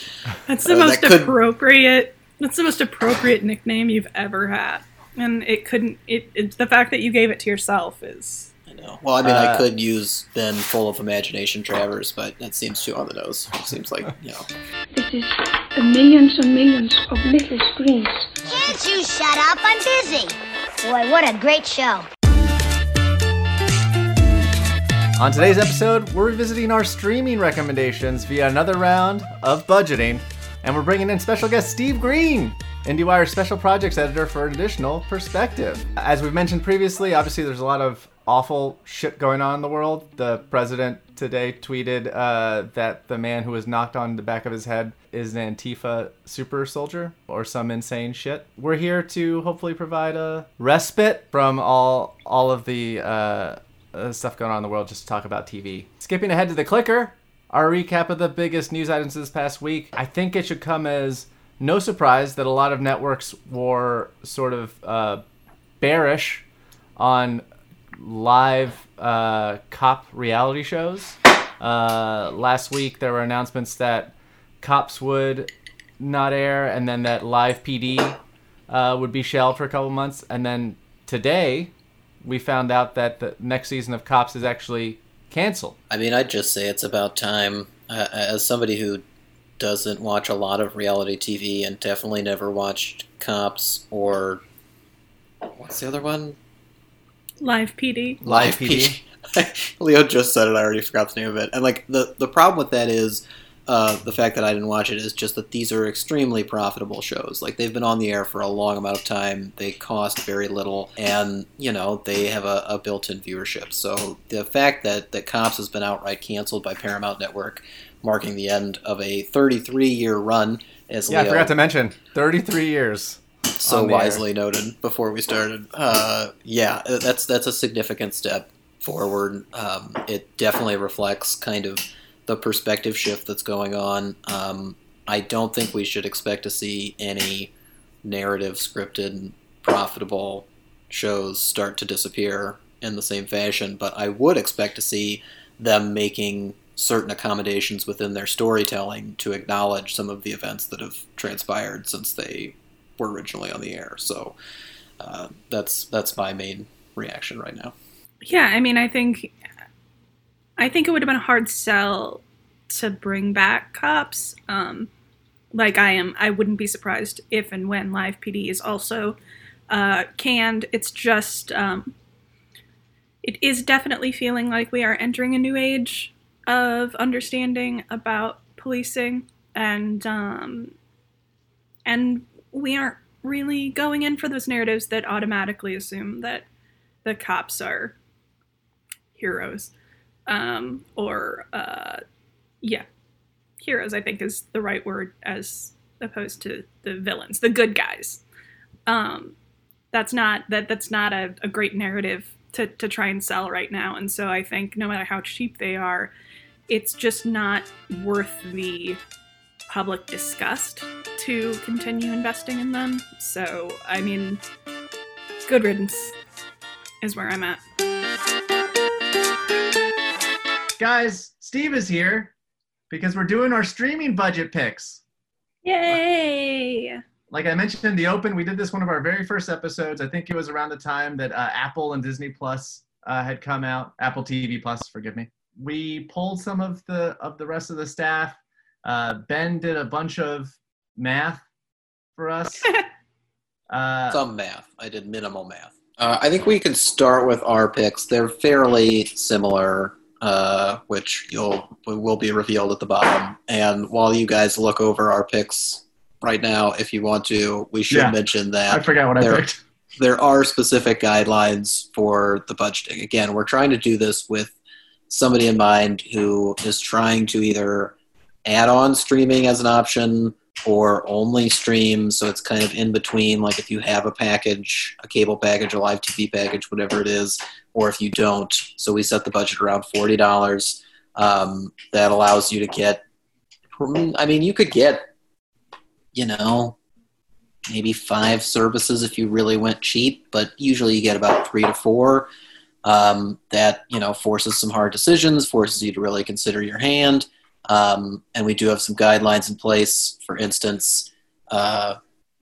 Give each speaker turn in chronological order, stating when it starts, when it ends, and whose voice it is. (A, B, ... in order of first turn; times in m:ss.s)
0:00.5-0:08.5 A
0:00.6-0:01.4 B
0:08.7-0:14.5 B
0:09.2-0:09.6 C
0:14.9-0:18.4 D
0:18.4-0:22.1 E
0:25.2-1:05.2 C
1:05.8-1:06.4 C
1:07.0-1:07.4 C
1:08.0-1:15.5 C
1:16.0-1:18.2 C
1:18.7-1:21.7 C
1:22.2-1:25.8 C
1:25.9-1:29.0 B
1:29.6-1:34.4 B
1:35.5-1:36.4 B
1:37.4-1:38.2 A
1:38.2-1:39.0 C
1:38.2-2:01.5 B
2:01.1-2:04.2 C
2:03.6-2:17.5 B
2:18.0-2:34.4 B
2:35.0-2:37.7 B
2:38.2-2:39.3 A
2:40.6-2:44.9 A
2:45.5-2:49.2 A
2:49.7-2:51.9 A
2:53.2-3:00.7 A
3:01.8-3:06.4 A
3:07.0-3:08.0 A
3:09.2-3:09.7 A
3:10.3-3:12.0 A
3:13.6-3:18.2 A
3:18.9-3:19.3 A
3:19.9-3:26.1 A
3:26.7-3:29.0 A
3:29.7-3:34.4 A
3:35.4-3:36.1 A
3:37.0-3:37.6 A
3:40.8-3:42.3 C
3:42.9-3:45.0 C
3:45.6-3:47.0 A
3:47.3-4:01.4 C
4:02.2-4:02.7 C
4:03.7-4:04.2 C
4:04.1-4:19.4 B
4:17.9-4:18.1 C
4:18.7-4:19.6 C
4:20.0-4:24.5 B
4:25.1-4:43.0 B
4:43.7-4:45.1 B
4:46.1-4:46.8 B
4:47.7-4:52.3 B
4:52.8-5:02.0 B